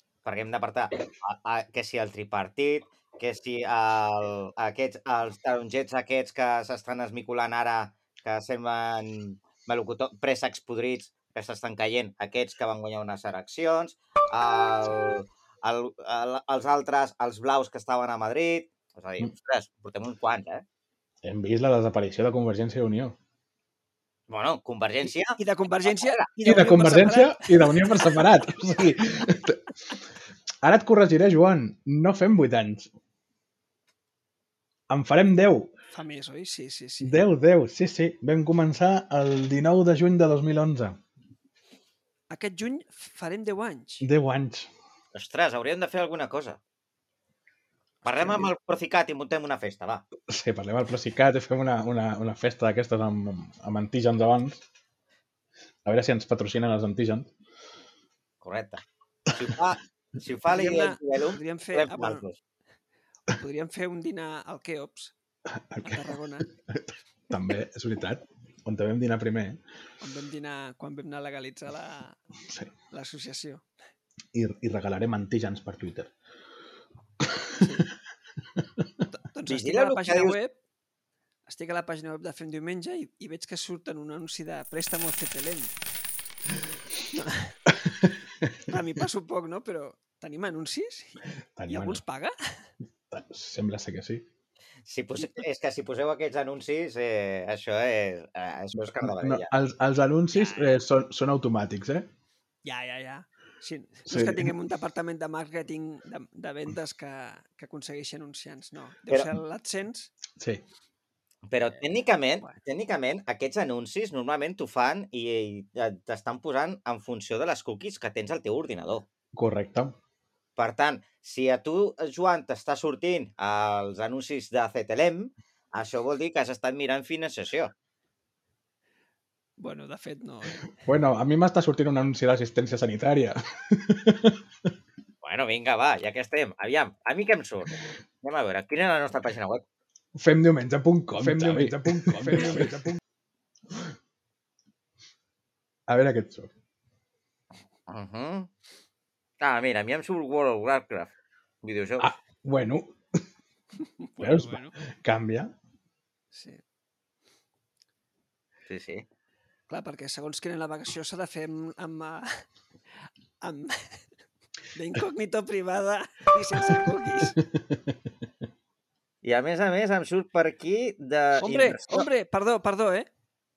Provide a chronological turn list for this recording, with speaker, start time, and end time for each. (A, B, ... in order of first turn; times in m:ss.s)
0:00.2-0:20.6 A
0:21.2-0:23.2 B
0:24.3-0:26.3 A
0:25.4-0:28.4 C
0:26.4-0:29.7 B
0:30.6-0:32.9 B
0:34.9-0:35.7 B
0:35.9-0:37.2 C
0:37.0-0:41.0 B
0:42.3-0:44.1 C
0:44.0-0:44.7 B
0:45.1-0:46.6 A
0:48.0-0:48.5 C
0:48.0-0:50.0 A
0:50.3-0:54.6 B
0:55.8-0:57.3 B
0:58.4-1:02.4 A
0:59.3-0:59.6 B
1:00.4-1:02.2 C
1:03.3-1:05.1 C
1:05.5-1:06.1 B
1:05.8-1:06.5 C
1:06.7-1:09.6 B
1:10.0-1:12.2 C
1:12.5-1:12.7 B
1:12.9-1:13.6 C
1:14.3-1:16.1 B
1:17.2-1:17.7 B
1:17.6-1:17.9 C
1:18.5-1:18.9 B
1:19.1-1:20.6 C
1:19.5-1:20.4 A
1:21.4-1:25.7 C
1:27.1-1:27.6 C
1:27.7-1:28.5 B
1:28.6-1:32.7 C
1:31.5-1:32.0 B
1:33.1-1:34.2 B
1:34.8-1:39.5 A
1:38.8-1:42.1 B
1:40.3-1:40.8 C
1:42.6-1:50.1 C
1:44.1-1:44.5 B
1:50.4-1:50.6 B
1:51.5-1:59.0 A
1:59.3-2:00.0 B
2:00.6-2:07.7 A
2:09.6-2:10.7 C
2:10.8-2:14.7 B
2:15.2-2:19.6 A
2:20.1-2:23.0 B
2:21.2-2:22.9 C
2:25.9-2:26.5 B
2:27.9-2:28.5 A
2:29.4-2:31.1 A
2:31.6-2:32.1 A
2:32.0-2:33.2 B
2:33.8-2:34.7 C
2:34.2-2:35.5 B
2:36.3-2:36.6 C
2:38.7-2:39.0 A
2:39.7-2:42.4 C
2:43.4-2:44.0 C
2:44.7-2:47.4 C
2:47.4-2:48.1 B
2:49.2-2:52.1 A
2:51.4-2:53.1 C